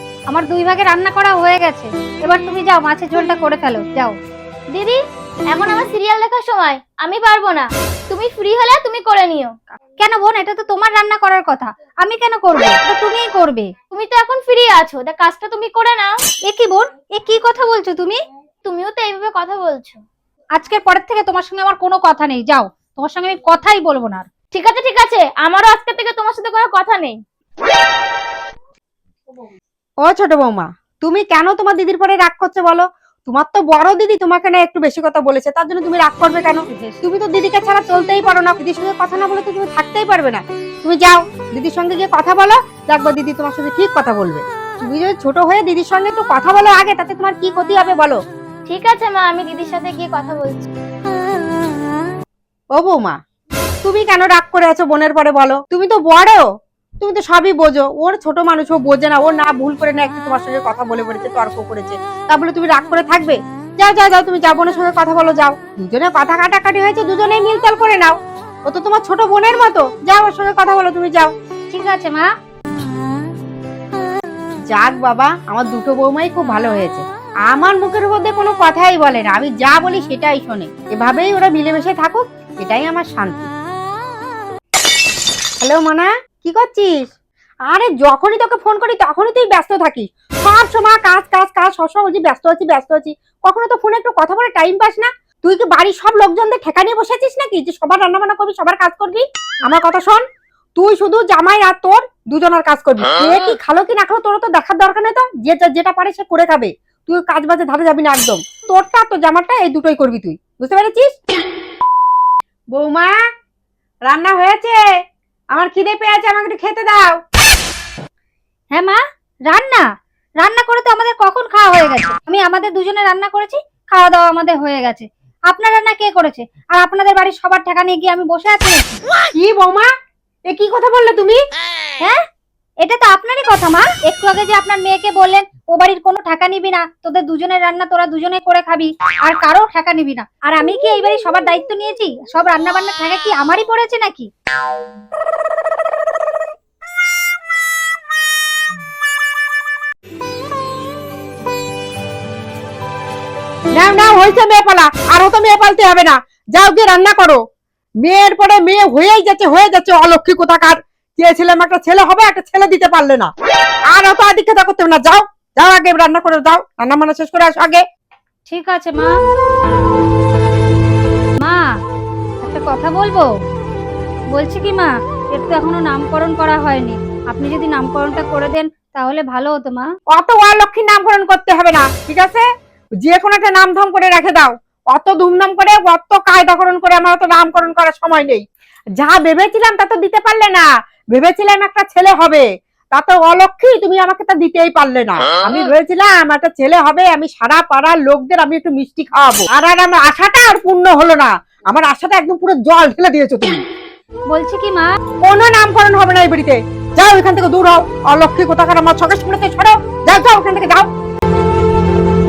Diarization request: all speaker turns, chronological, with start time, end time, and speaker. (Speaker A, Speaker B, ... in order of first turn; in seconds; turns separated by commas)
Speaker A: 0.3-4.2, Speaker B: 4.7-5.0, Speaker B: 5.5-9.6, Speaker A: 10.0-13.7, Speaker B: 13.9-16.1, Speaker A: 16.5-18.2, Speaker B: 18.6-20.0, Speaker A: 20.6-24.3, Speaker B: 24.5-27.2, Speaker C: 30.0-48.2, Speaker A: 36.6-37.0, Speaker B: 48.7-50.6, Speaker C: 52.7-53.2, Speaker C: 53.8-56.5, Speaker C: 57.0-71.3, Speaker A: 71.7-72.3, Speaker C: 74.7-83.5, Speaker C: 85.6-87.1, Speaker C: 87.7-100.2, Speaker C: 100.8-111.1, Speaker C: 112.7-113.2, Speaker C: 114.1-114.8, Speaker C: 115.5-117.2, Speaker A: 118.7-119.8, Speaker A: 120.4-129.0, Speaker C: 129.4-129.9, Speaker C: 130.5-131.4, Speaker A: 132.8-144.3, Speaker C: 153.8-157.4, Speaker C: 158.0-163.3, Speaker C: 163.9-167.8, Speaker A: 168.5-169.1, Speaker A: 171.4-171.7, Speaker A: 172.4-173.3, Speaker A: 174.3-179.9, Speaker C: 180.1-182.5, Speaker C: 183.0-188.4, Speaker C: 189.0-203.6, Speaker A: 204.3-204.9, Speaker C: 205.2-210.8